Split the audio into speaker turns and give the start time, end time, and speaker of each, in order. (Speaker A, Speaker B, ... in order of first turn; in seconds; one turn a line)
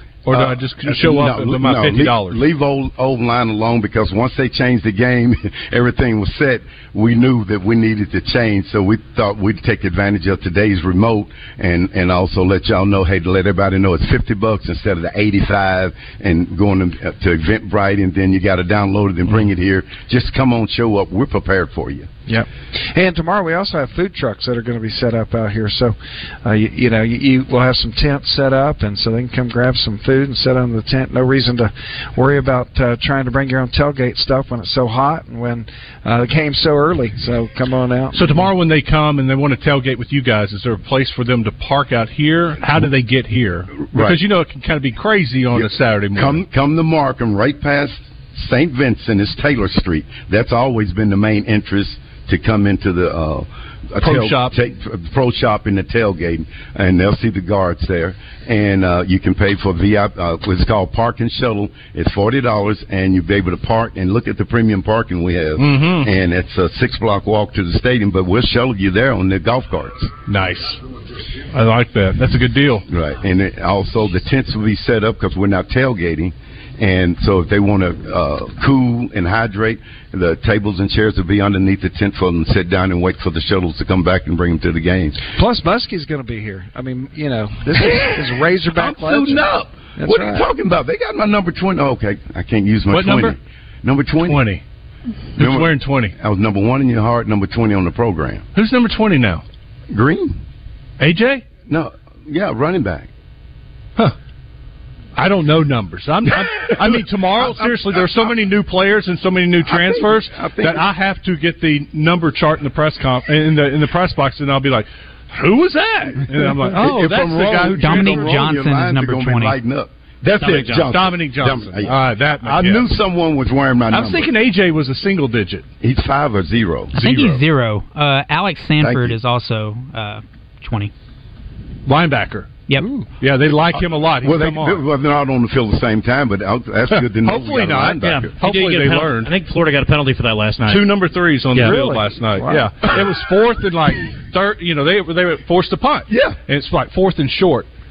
Speaker A: 0.2-2.4
Speaker B: 0.3-22.1
Speaker C: 22.3-38.5
Speaker A: 38.1-46.4
Speaker B: 43.9-44.2
Speaker B: 45.5-70.1
Speaker A: 54.0-54.5
Speaker A: 65.6-66.1
Speaker A: 70.3-70.8
Speaker A: 71.5-72.8
Speaker B: 72.9-85.2
Speaker C: 85.3-90.5
Speaker B: 87.8-94.5
Speaker A: 92.9-93.4
Speaker A: 94.2-94.6
Speaker A: 95.4-96.1
Speaker B: 95.4-98.4
Speaker A: 98.5-99.4
Speaker B: 99.9-100.4
Speaker A: 101.0-101.4
Speaker B: 101.7-103.1
Speaker A: 105.2-118.4
Speaker B: 107.4-108.3
Speaker B: 109.7-110.9
Speaker B: 116.3-124.3
Speaker D: 116.8-117.1
Speaker D: 117.7-119.6
Speaker E: 120.4-121.0
Speaker A: 120.8-122.9
Speaker A: 123.9-125.7
Speaker B: 125.8-127.0
Speaker D: 126.9-130.9
Speaker A: 127.0-127.4
Speaker B: 128.8-129.2
Speaker A: 131.9-132.6
Speaker D: 132.7-133.0
Speaker A: 133.2-134.8
Speaker B: 133.8-138.3
Speaker A: 136.9-139.3
Speaker E: 138.0-140.8
Speaker A: 140.7-147.7
Speaker C: 141.6-142.7
Speaker B: 146.1-146.4